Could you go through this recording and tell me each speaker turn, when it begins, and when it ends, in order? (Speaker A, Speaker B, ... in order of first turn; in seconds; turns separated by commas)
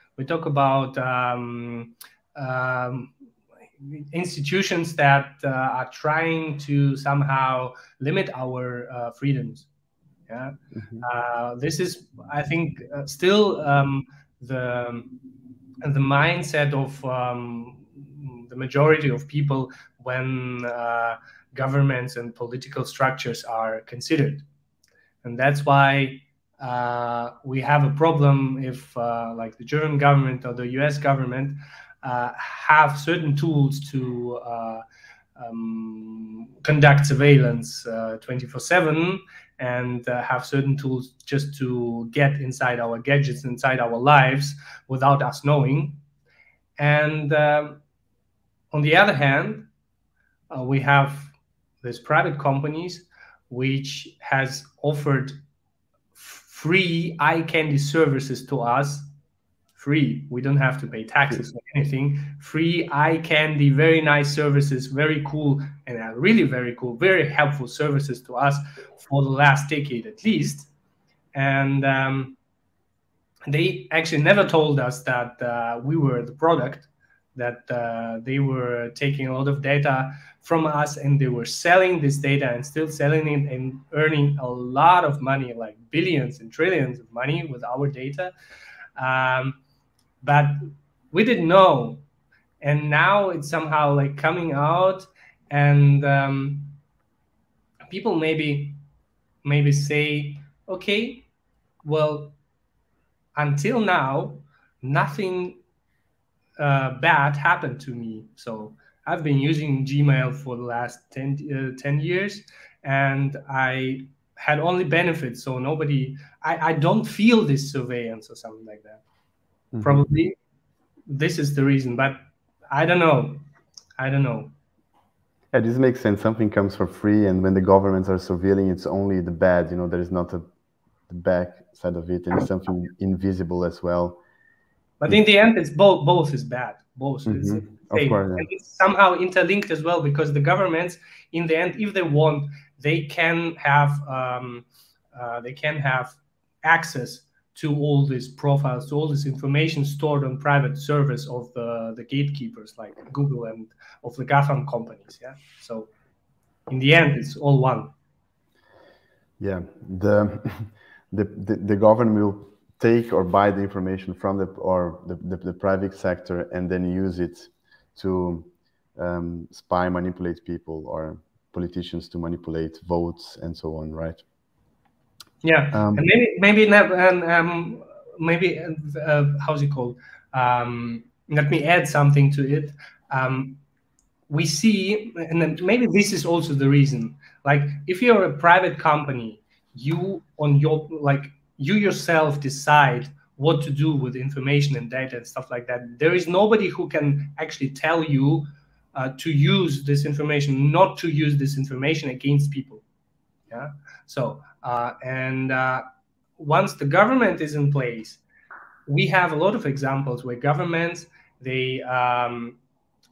Speaker A: 0.2-3.1, Speaker A: 3.8-9.7, Speaker A: 10.3-15.2, Speaker B: 10.8-11.0, Speaker A: 15.8-24.4, Speaker A: 25.2-34.8, Speaker A: 35.4-46.0, Speaker A: 46.8-47.8, Speaker A: 48.7-49.7, Speaker A: 50.5-55.4, Speaker A: 56.1-59.1, Speaker A: 59.8-70.7, Speaker A: 71.3-72.4, Speaker A: 73.5-88.3, Speaker A: 89.0-89.6, Speaker A: 90.2-90.6, Speaker A: 91.1-92.0, Speaker A: 92.6-96.8, Speaker A: 97.9-98.8, Speaker A: 99.4-101.3, Speaker A: 101.8-102.4, Speaker A: 103.4-105.6, Speaker A: 106.6-119.0, Speaker B: 119.7-120.0, Speaker A: 119.8-120.3, Speaker A: 121.1-122.2, Speaker A: 122.7-123.4, Speaker A: 124.0-124.5, Speaker B: 125.5-130.5, Speaker B: 131.1-134.2, Speaker A: 135.0-155.9, Speaker B: 137.3-138.5, Speaker A: 156.7-157.9, Speaker B: 159.4-174.2, Speaker A: 175.4-183.6, Speaker B: 175.7-176.1, Speaker A: 184.3-202.8, Speaker A: 203.5-205.8, Speaker A: 206.4-208.2, Speaker A: 208.9-212.6